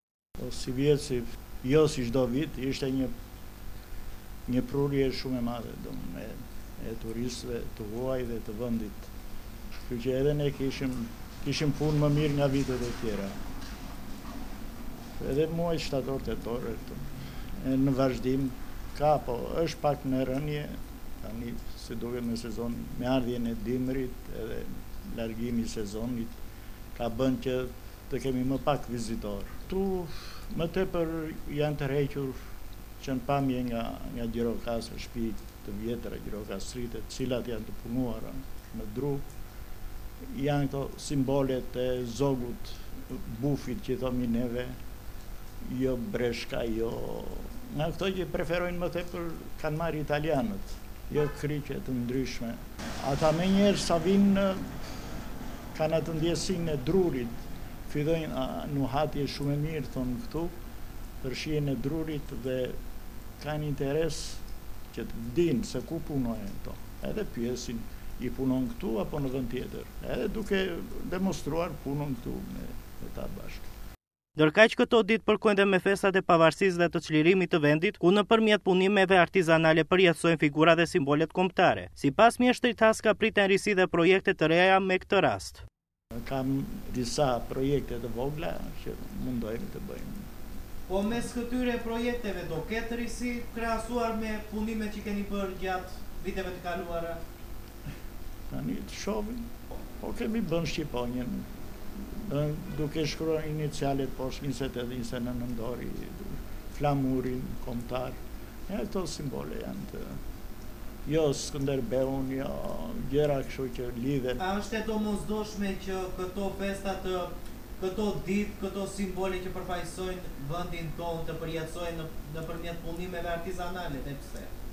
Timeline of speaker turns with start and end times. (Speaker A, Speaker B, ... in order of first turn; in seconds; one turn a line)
Speaker A: 0.4-3.1
Speaker A: 4.5-9.1
Speaker A: 9.9-13.4
Speaker A: 15.2-17.0
Speaker A: 17.6-26.4
Speaker A: 26.9-32.4
Speaker A: 33.0-39.2
Speaker A: 40.3-44.8
Speaker A: 45.6-54.7
Speaker A: 55.7-60.5
Speaker A: 61.2-62.8
Speaker A: 63.4-73.7
Speaker B: 74.4-85.6
Speaker A: 86.2-90.2
Speaker B: 90.9-97.2
Speaker A: 98.5-99.5
Speaker A: 100.0-101.5
Speaker A: 102.1-110.2
Speaker A: 111.1-114.4
Speaker B: 114.4-124.5